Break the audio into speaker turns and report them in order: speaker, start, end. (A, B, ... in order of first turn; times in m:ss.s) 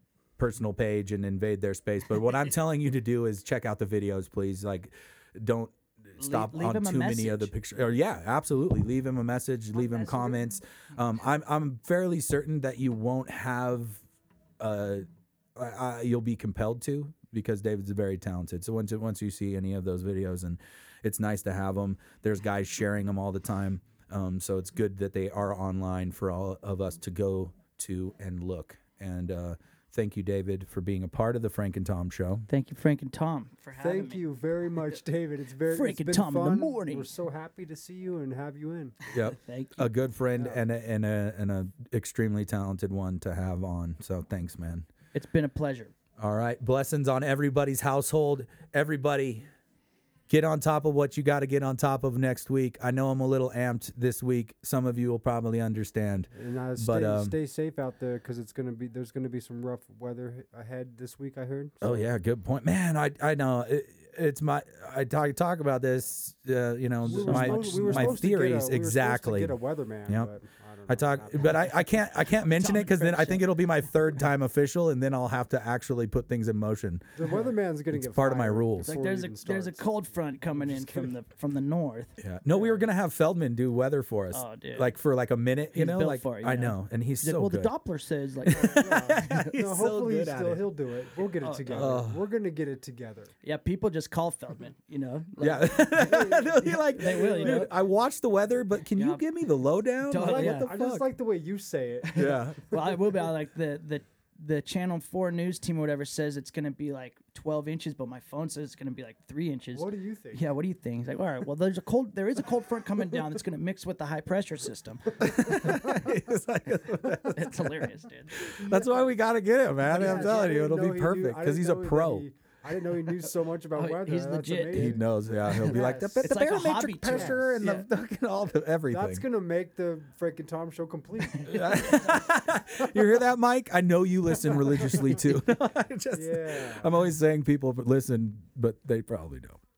0:00.4-0:14.0 A
0:06.2-0:07.5 B
0:09.7-0:10.4 B
0:14.6-0:32.5 A
0:32.5-0:34.2 B
0:33.8-0:39.0 C
0:35.7-0:37.1 B
0:39.1-0:44.9 A
0:39.2-0:39.9 B
0:40.4-0:40.6 C
0:45.1-0:45.9 B
0:46.2-0:49.5 A
0:50.3-0:57.4 A
0:56.3-1:02.1 C
1:01.8-1:09.6 A
1:07.0-1:11.7 C
1:07.1-1:08.2 B
1:10.9-1:17.1 A
1:12.2-1:13.5 B
1:17.2-1:19.9 C
1:17.9-1:18.9 A
1:18.8-1:22.2 B
1:20.5-1:21.1 C
1:22.2-1:27.7 A
1:24.3-1:24.9 B
1:25.7-1:29.5 B
1:28.5-1:30.7 A
1:28.5-1:33.3 C
1:31.2-1:32.0 B
1:31.7-1:32.2 A
1:33.4-1:37.7 B
1:35.4-1:41.0 A
1:36.0-1:37.7 C
1:39.0-1:39.2 B
1:40.0-1:40.7 B
1:40.2-1:42.9 C
1:42.1-1:55.6 B
1:42.2-1:42.6 A
1:49.7-1:50.5 C
1:55.2-2:02.2 A
1:55.5-1:56.2 C
1:57.2-1:58.4 B
1:58.5-1:59.1 C
1:59.8-2:06.3 C
2:03.8-2:07.9 B
2:04.7-2:09.2 A
2:07.0-2:07.6 C
2:08.9-2:13.2 C
2:11.5-2:19.6 A
2:11.5-2:11.9 B
2:14.4-2:15.4 C
2:16.1-2:16.9 C